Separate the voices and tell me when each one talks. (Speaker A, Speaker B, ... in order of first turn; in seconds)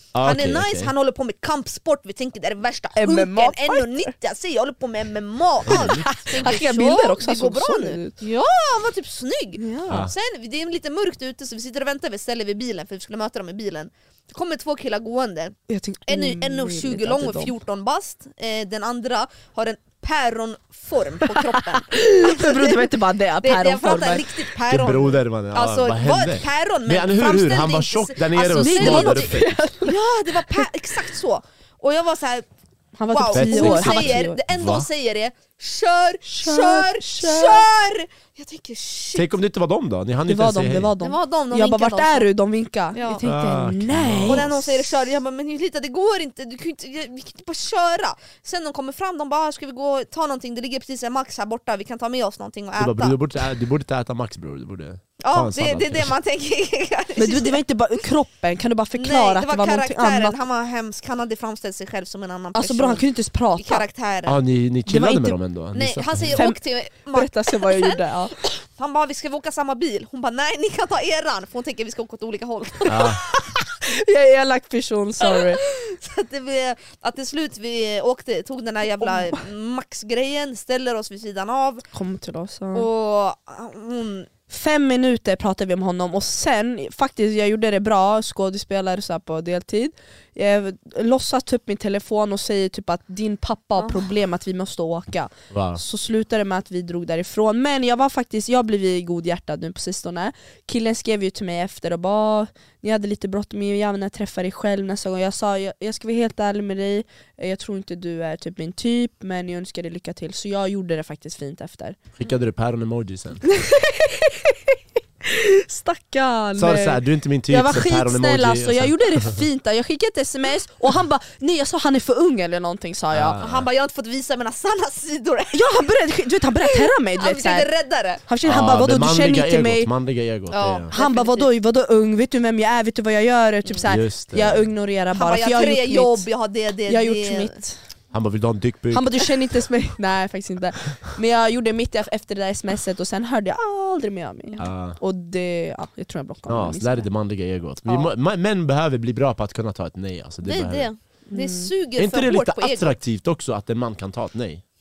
Speaker A: 0.1-0.9, 5.6-6.5, 24.7-29.5, 33.3-34.9, 39.1-40.9, 43.2-44.8, 52.8-56.1, 64.2-66.4, 72.8-73.2, 95.5-95.8, 112.2-113.4, 116.6-119.4, 123.1-123.7, 128.4-130.9, 133.8-134.7, 138.1-139.3, 144.6-145.0, 146.5-150.9, 152.0-154.6
Speaker B: 0.2-32.5, 33.1-39.3, 41.0-42.3, 42.9-43.2, 44.2-53.2, 55.2-57.6, 58.9-63.0, 63.6-64.4, 65.7-73.2, 75.2-81.8, 82.7-84.3, 123.4-125.8, 126.6-128.2, 130.5-131.5, 135.1-137.6, 150.4-153.0
Speaker C: 2.9-4.1, 5.7-8.2, 9.6-10.1, 15.7-17.5, 21.2-24.4, 28.6-31.1, 33.0-34.4, 36.2-37.7, 40.2-44.6, 57.2-60.4, 62.5-63.9, 64.9-65.4, 66.3-68.4, 72.9-75.6, 79.0-79.4, 81.9-82.9, 84.5-112.0, 113.4-123.4, 125.5-127.7, 128.2-129.9, 130.9-136.3, 136.9-137.8, 138.9-147.1, 151.3-151.7